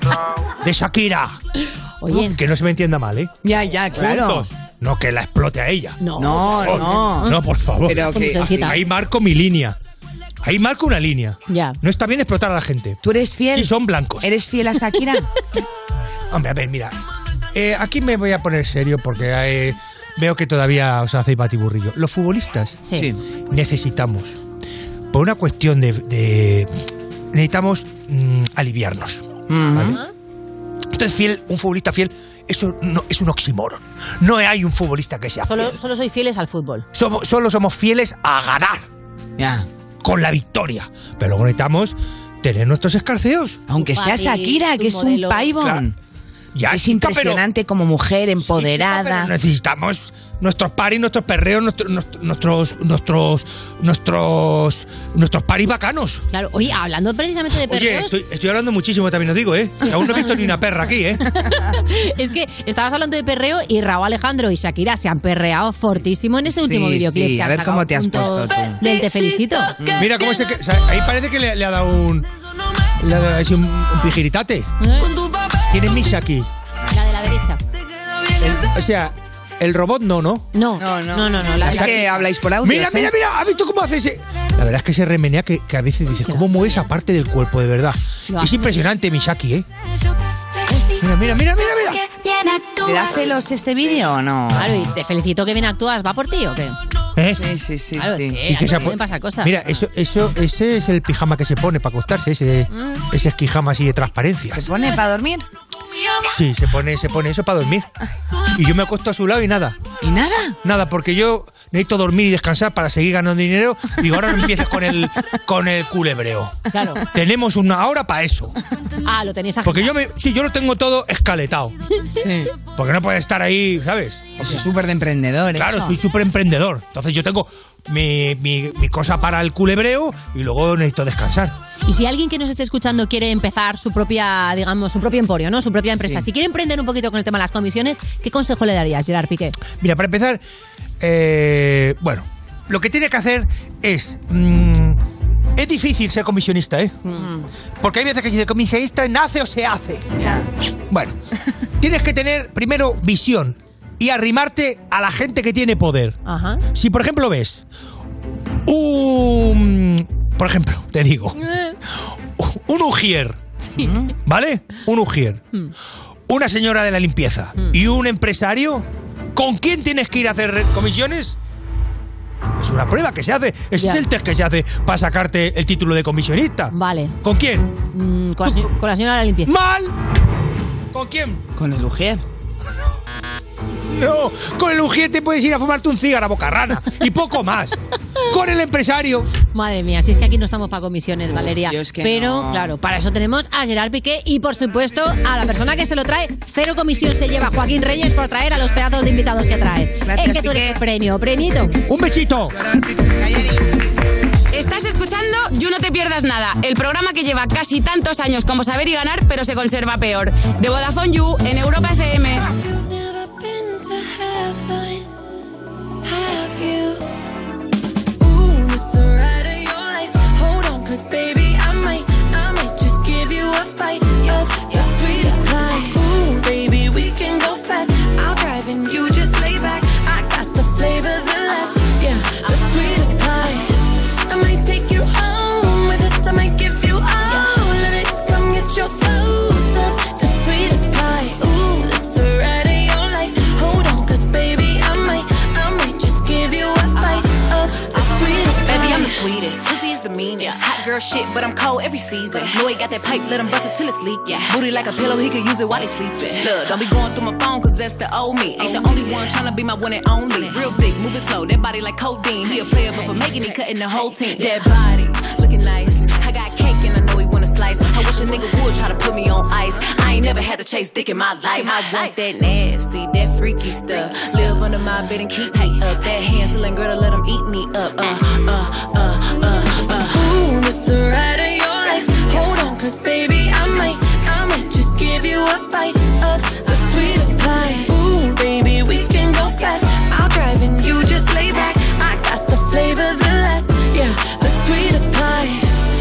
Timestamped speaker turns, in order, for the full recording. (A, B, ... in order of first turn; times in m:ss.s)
0:00.6-0:01.4 A
0:02.0-0:02.4 B
0:02.1-0:03.3 A
0:03.4-0:04.5 C
0:03.9-0:06.0 A
0:06.0-0:07.4 B
0:06.2-0:08.8 C
0:06.5-0:09.8 A
0:08.0-0:08.8 B
0:10.4-0:13.0 A
0:11.5-0:11.8 B
0:13.0-0:15.3 C
0:13.5-0:14.2 A
0:16.3-0:16.9 A
0:17.5-0:22.8 A
0:22.9-0:23.2 C
0:23.5-0:24.4 A
0:25.1-0:26.7 A
0:27.3-0:30.0 A
0:29.5-0:30.0 C
0:29.8-0:30.1 B
0:30.9-0:35.8 A
0:35.5-0:36.8 B
0:36.9-0:38.8 A
0:39.4-0:39.7 C
0:40.0-0:43.6 A
0:43.7-0:45.9 C
0:43.8-0:45.6 B
0:46.5-0:47.4 A
0:46.7-0:49.3 C
0:48.5-0:56.2 A
0:56.3-0:58.1 B
0:57.6-1:01.2 A
0:59.8-1:00.6 B
1:01.3-1:09.7 B
1:06.5-1:08.8 C
1:09.8-1:10.1 C
1:10.0-1:12.3 A
1:13.0-1:14.7 A
1:14.8-1:15.1 B
1:15.7-1:16.5 A
1:16.9-1:17.6 B
1:18.4-1:20.5 A
1:20.5-1:22.2 B
1:20.8-1:23.1 C
1:21.6-1:22.0 A
1:22.6-1:29.6 A
1:26.3-1:26.8 B
1:28.3-1:28.8 B
1:31.0-1:32.0 A
1:32.8-1:34.8 C
1:34.5-1:36.7 B
1:37.3-1:38.9 C
1:38.0-1:39.5 B
1:38.5-1:44.6 A
1:42.7-1:43.0 B
1:44.5-1:45.4 C
1:46.2-1:47.8 A
1:48.5-1:49.8 A
1:50.0-1:50.6 C
1:50.6-1:56.6 A
1:56.7-1:57.0 B
1:57.1-1:58.5 A
1:59.0-1:59.9 B
1:59.6-2:01.8 A
2:02.2-2:02.5 C
2:02.6-2:04.6 A
2:04.4-2:06.0 C
2:05.5-2:11.5 A
2:11.8-2:19.6 B
2:19.8-2:20.4 A
2:21.0-2:25.0 A
2:25.6-2:27.0 A
2:27.8-2:30.1 A
2:30.2-2:30.4 C
2:30.9-2:31.2 A
2:31.8-2:36.2 A
2:36.2-2:36.6 B
2:36.7-2:37.6 A
2:38.6-2:41.4 A
2:42.4-2:43.4 A
2:43.8-2:44.1 C
2:44.2-2:45.4 A
2:46.3-2:51.4 A
2:52.6-2:57.7 A
2:56.7-2:57.2 B
2:57.9-2:59.5 B
2:58.4-2:58.7 A
2:59.4-2:59.9 A
3:00.9-3:01.4 A
3:01.5-3:02.2 C
3:03.9-3:09.3 A
3:09.5-3:21.7 B
3:11.3-3:12.7 C
3:20.0-3:20.8 C
3:21.9-3:22.6 A
3:22.7-3:23.6 C
3:24.5-3:32.5 D
3:32.6-3:35.1 E
3:36.0-3:37.0 E
3:38.2-3:53.8 E
3:54.3-4:09.2 E
4:08.2-4:40.2 F
4:40.1-4:55.7 E